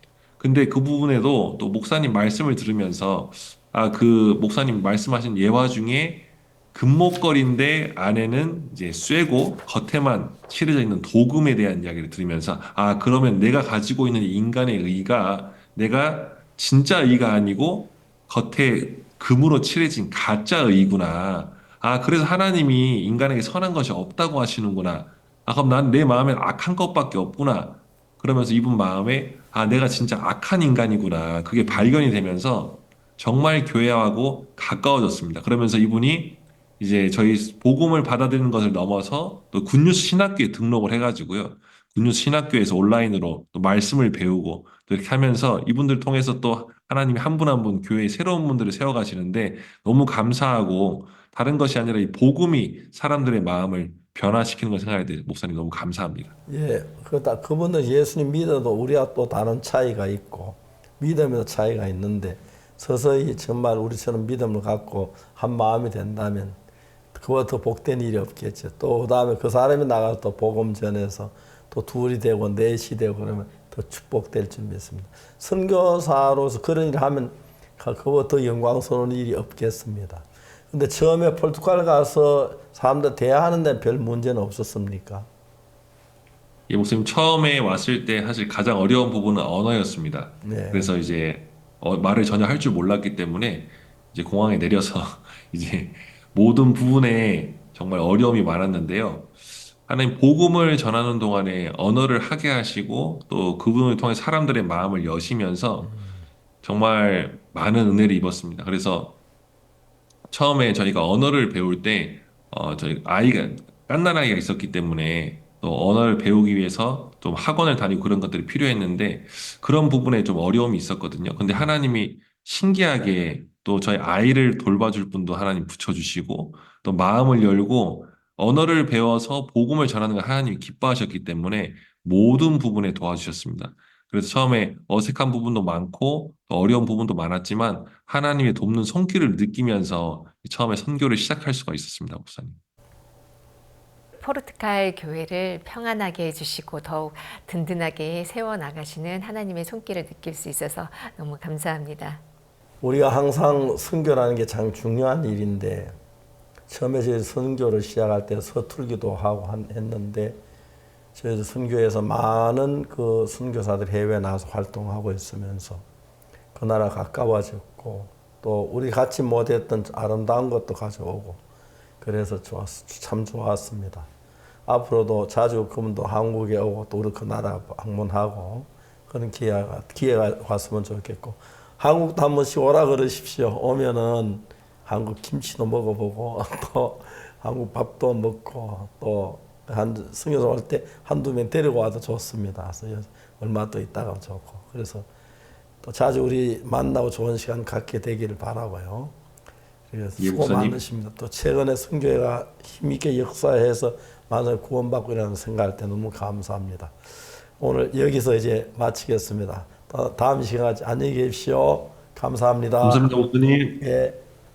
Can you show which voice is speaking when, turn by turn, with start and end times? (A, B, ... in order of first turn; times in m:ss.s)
0:00.4-0:56.4 A
0:31.7-0:31.9 B
0:56.5-1:06.6 B
1:07.1-1:25.3 B
1:26.7-1:39.3 A
1:30.4-1:30.9 B
1:39.9-1:45.9 A
1:45.8-1:46.3 B
1:46.6-1:49.2 A
1:50.3-2:22.6 A
2:01.4-2:01.7 B
2:24.2-2:32.2 C
2:32.8-2:36.0 B
2:36.7-2:40.4 B
2:41.2-2:45.8 B
2:46.6-2:51.4 B
2:52.0-2:54.1 B
2:54.7-3:15.1 B
3:15.8-3:19.2 B
3:19.9-3:27.0 B
3:20.2-3:20.8 A
3:27.6-3:33.2 B
3:32.8-3:33.8 A
3:33.8-3:34.2 B